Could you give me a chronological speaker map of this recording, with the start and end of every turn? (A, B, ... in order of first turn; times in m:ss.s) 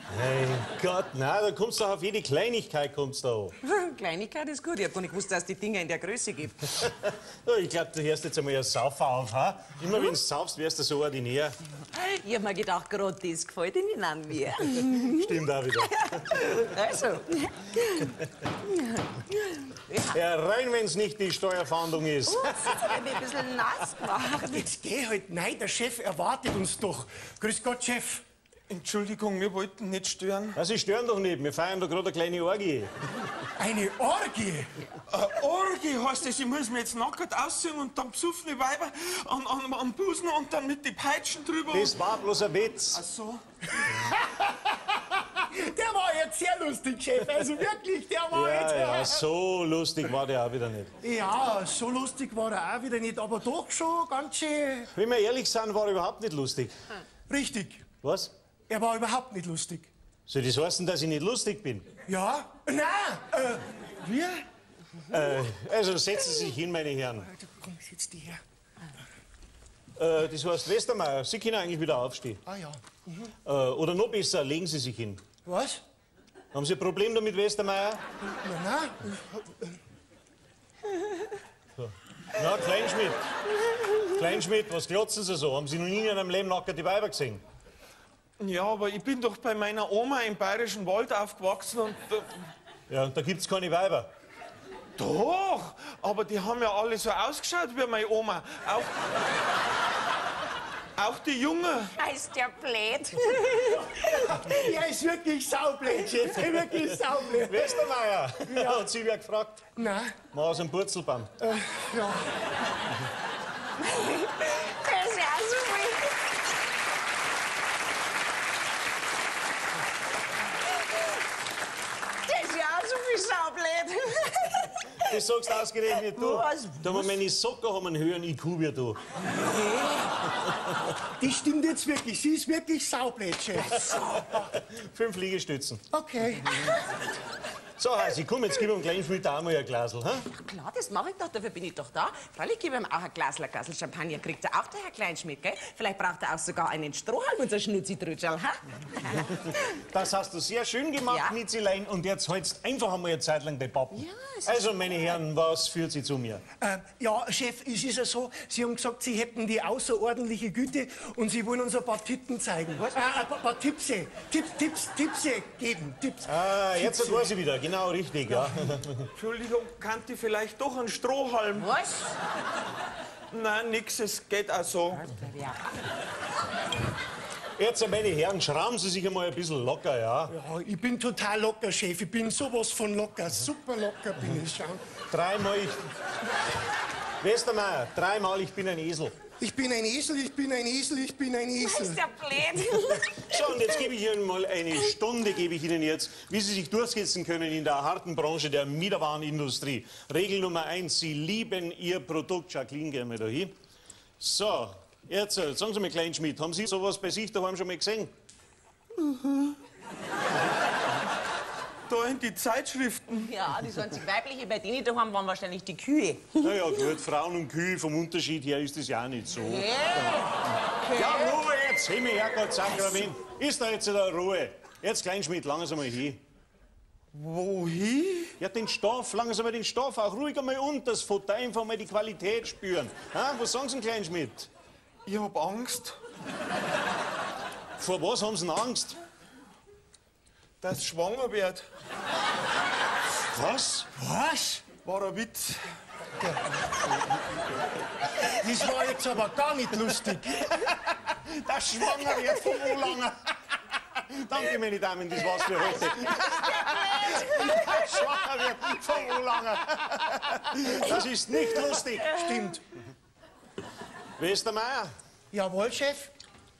0:00.1-0:03.6 A
0:03.6-0:06.7 B
0:06.8-0:11.6 A
0:11.9-0:15.3 B
0:14.9-0:16.4 A
0:15.8-0:20.1 B
0:20.1-0:22.6 A
0:22.2-0:24.6 B
0:24.5-0:28.2 C
0:28.7-0:30.6 D
0:30.5-0:32.9 A
0:33.6-0:34.7 C
0:35.1-0:42.0 D
0:41.7-0:43.0 A
0:42.9-0:43.4 D
0:43.8-0:49.2 C
0:48.3-0:50.9 A
0:51.0-0:54.9 C
0:54.9-0:56.7 A
0:57.3-0:57.8 C
0:58.0-0:58.3 A
0:58.7-0:59.9 C
1:00.3-1:01.9 A
1:02.1-1:03.6 C
1:04.0-1:04.4 D
1:05.0-1:07.3 A
1:07.4-1:08.4 C
1:10.0-1:12.4 A
1:12.5-1:13.3 C
1:13.4-1:15.2 A
1:15.4-1:15.8 C
1:16.5-1:18.0 A
1:18.4-1:19.8 C
1:21.8-1:23.2 A
1:23.8-1:27.4 A
1:28.4-1:32.3 D
1:32.9-1:34.1 A
1:35.0-1:39.1 D
1:41.0-1:41.9 D
1:42.0-1:44.4 B
1:44.1-1:47.8 C
1:46.3-1:49.6 A
1:49.8-1:50.2 C
1:50.2-1:51.3 A
1:51.4-1:52.3 C
1:53.8-1:56.1 B
2:02.2-2:05.2 B
2:05.0-2:09.0 A
2:06.0-2:06.9 B
2:09.4-2:10.0 B
2:11.2-2:14.1 C
2:14.4-2:15.8 A
2:15.9-2:16.6 C
2:17.8-2:20.2 A
2:20.3-2:29.6 B
2:29.7-2:36.4 A
2:31.1-2:31.3 B
2:34.0-2:34.6 B
2:36.6-2:47.3 C
2:46.2-2:49.1 A
2:49.2-2:51.7 D
2:51.7-2:52.0 B
2:53.3-2:55.2 D
2:55.2-2:55.5 B
2:57.6-3:00.3 A
3:00.3-3:04.8 C
3:05.1-3:05.8 A
3:07.2-3:09.1 A
3:09.4-3:12.0 C
3:11.6-3:13.5 B
3:12.9-3:23.5 A
3:24.2-3:28.1 A
3:29.0-3:29.5 D
3:31.9-3:33.3 D
3:33.3-3:36.5 B
3:36.4-3:40.0 A
3:39.4-3:40.3 B
3:40.9-3:46.2 A
3:47.1-3:48.3 D
3:48.4-3:54.5 A
3:55.0-3:56.0 D
3:57.8-3:59.0 A
4:00.6-4:01.6 D
4:03.3-4:03.9 A
4:04.0-4:04.7 C
4:04.7-4:05.6 D
4:08.2-4:10.5 C
4:10.5-4:13.2 A
4:14.0-4:22.1 A
4:16.3-4:17.6 B
4:22.1-4:22.6 C
4:24.2-4:24.9 A
4:25.3-4:26.1 C